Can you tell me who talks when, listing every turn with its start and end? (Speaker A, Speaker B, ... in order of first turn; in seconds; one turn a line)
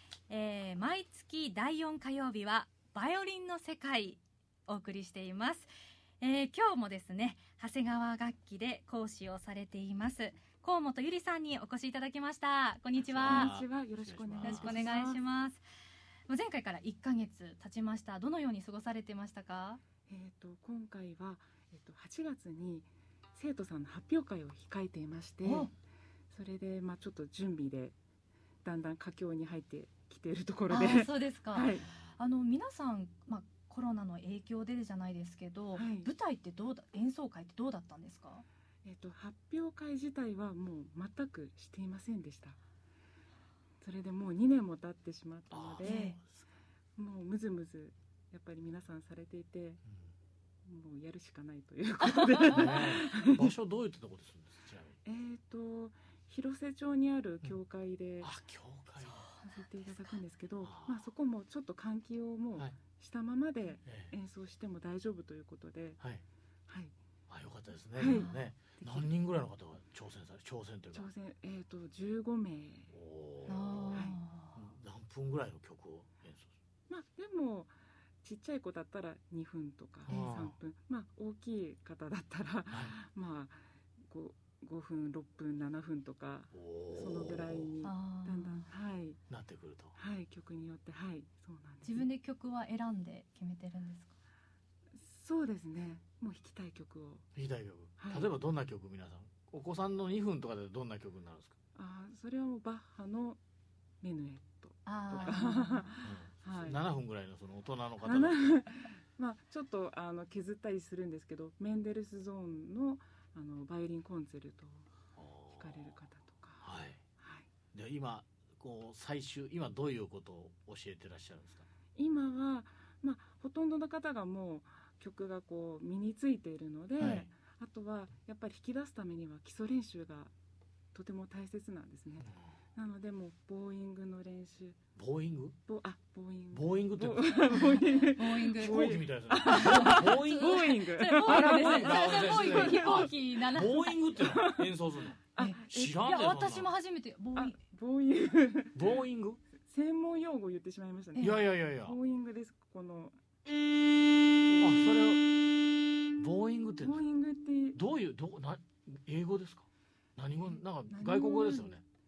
Speaker A: 0.3-5.7
Speaker A: 6.2-13.6
Speaker B: 13.0-14.9
Speaker C: 13.2-15.2
Speaker A: 14.4-15.6
Speaker A: 16.3-19.8
Speaker C: 20.1-25.7
Speaker A: 25.4-25.7
Speaker C: 26.3-28.0
Speaker C: 28.6-31.9
Speaker A: 30.7-38.4
Speaker C: 35.7-36.1
Speaker C: 38.8-42.6
Speaker C: 43.8-46.2
Speaker B: 45.5-46.2
Speaker A: 45.8-46.2
Speaker C: 47.0-49.8
Speaker C: 50.6-53.5
Speaker B: 52.5-55.0
Speaker C: 55.0-58.3
Speaker B: 58.2-59.2
Speaker A: 59.0-60.2
Speaker C: 59.5-66.0
Speaker B: 60.6-61.0
Speaker B: 63.8-64.1
Speaker C: 66.7-66.9
Speaker B: 67.3-71.1
Speaker C: 68.0-69.1
Speaker A: 68.0-68.4
Speaker C: 70.9-72.9
Speaker B: 72.9-76.5
Speaker A: 73.5-74.6
Speaker C: 73.9-74.2
Speaker C: 76.9-89.2
Speaker B: 80.0-80.5
Speaker B: 86.5-87.7
Speaker A: 87.8-88.7
Speaker B: 89.3-89.9
Speaker C: 89.9-92.0
Speaker A: 91.8-94.1
Speaker C: 94.9-97.3
Speaker B: 97.3-101.5
Speaker C: 98.0-98.3
Speaker C: 101.7-103.4
Speaker C: 104.0-106.8
Speaker A: 104.8-105.9
Speaker B: 106.0-108.6
Speaker C: 108.0-114.9
Speaker B: 115.2-115.9
Speaker C: 115.5-117.5
Speaker B: 116.6-117.0
Speaker B: 117.7-121.6
Speaker C: 121.9-130.3
Speaker B: 127.0-127.3
Speaker C: 130.9-134.8
Speaker B: 135.0-135.6
Speaker C: 135.7-143.1
Speaker B: 136.5-137.5
Speaker A: 137.5-138.9
Speaker B: 138.6-146.7
Speaker A: 139.4-144.0
Speaker C: 144.1-144.7
Speaker C: 145.3-146.0
Speaker A: 145.4-147.6
Speaker C: 147.3-149.0
Speaker B: 148.7-149.4
Speaker C: 149.7-153.2
Speaker B: 151.2-151.9
Speaker C: 154.5-154.9
Speaker B: 154.6-155.3
Speaker B: 156.2-157.0
Speaker C: 156.8-157.8
Speaker B: 157.7-159.7
Speaker B: 160.2-161.8
Speaker C: 160.9-161.7